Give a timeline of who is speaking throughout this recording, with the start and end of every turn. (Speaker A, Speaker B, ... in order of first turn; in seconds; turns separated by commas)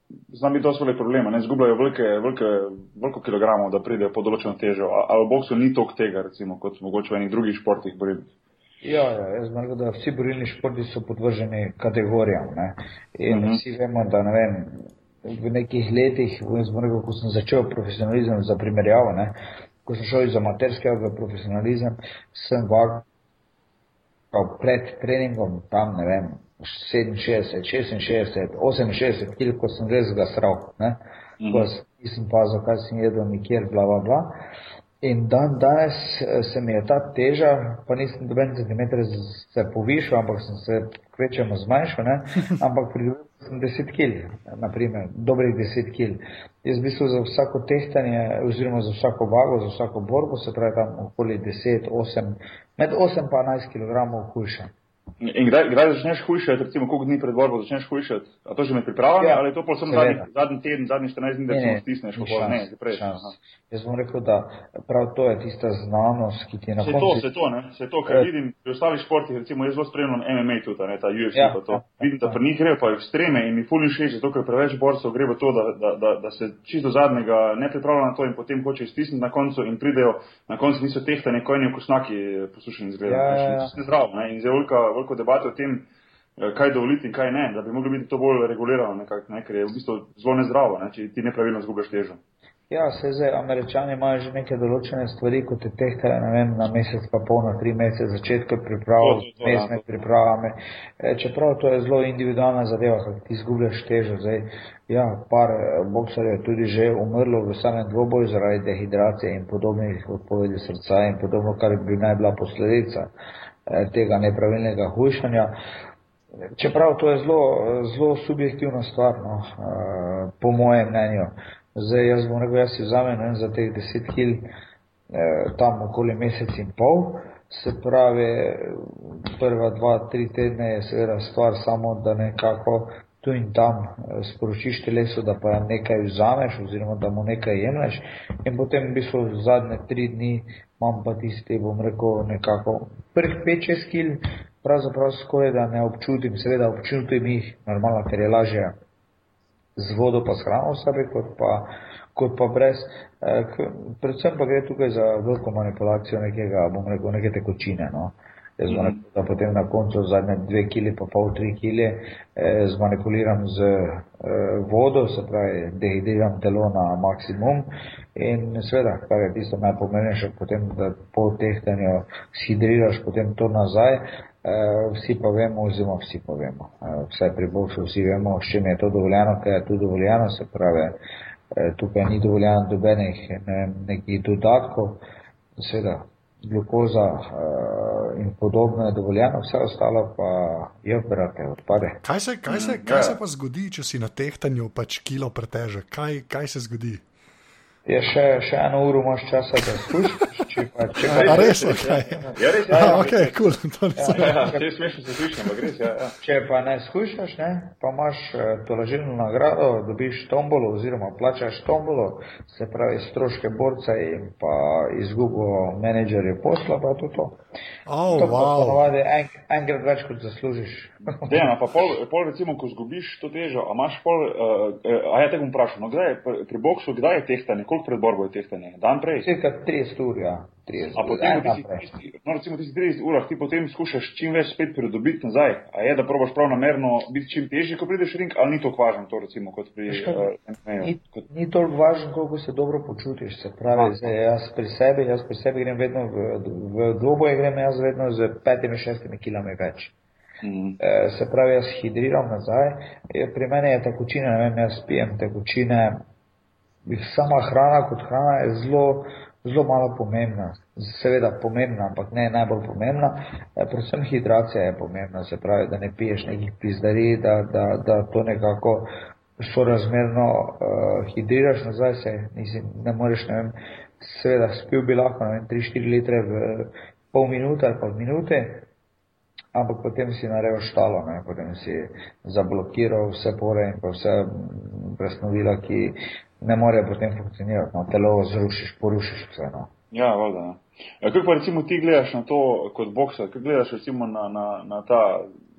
Speaker A: 0.3-8.3, Speaker B: 8.8-23.0, Speaker A: 13.3-13.6, Speaker B: 24.3-31.0, Speaker A: 31.4-31.7, Speaker B: 31.5-34.4, Speaker B: 35.0-54.7, Speaker A: 55.2-63.3, Speaker B: 59.2-60.2, Speaker B: 61.5-67.2, Speaker A: 66.8-92.2, Speaker B: 71.3-72.4, Speaker B: 83.1-83.7, Speaker B: 92.7-113.1, Speaker A: 99.0-99.8, Speaker B: 113.7-115.5, Speaker B: 116.6-124.5, Speaker B: 125.1-148.7, Speaker B: 149.8-181.0, Speaker A: 158.7-159.0, Speaker B: 181.5-185.0, Speaker B: 185.6-192.0, Speaker C: 192.0-197.0, Speaker A: 192.5-193.2, Speaker B: 197.8-201.6, Speaker A: 201.0-203.4, Speaker C: 201.2-204.4, Speaker B: 202.7-203.1, Speaker B: 203.9-204.6, Speaker A: 204.1-206.2, Speaker B: 206.2-217.4, Speaker C: 217.9-218.8, Speaker B: 218.1-221.5, Speaker A: 221.2-229.3, Speaker B: 229.2-231.8, Speaker A: 230.9-241.2, Speaker B: 239.9-240.2, Speaker B: 240.8-249.9, Speaker A: 243.7-244.1, Speaker A: 250.4-250.8, Speaker B: 250.8-256.0, Speaker B: 256.9-268.9, Speaker B: 269.4-278.6, Speaker B: 279.5-289.7, Speaker A: 289.9-295.2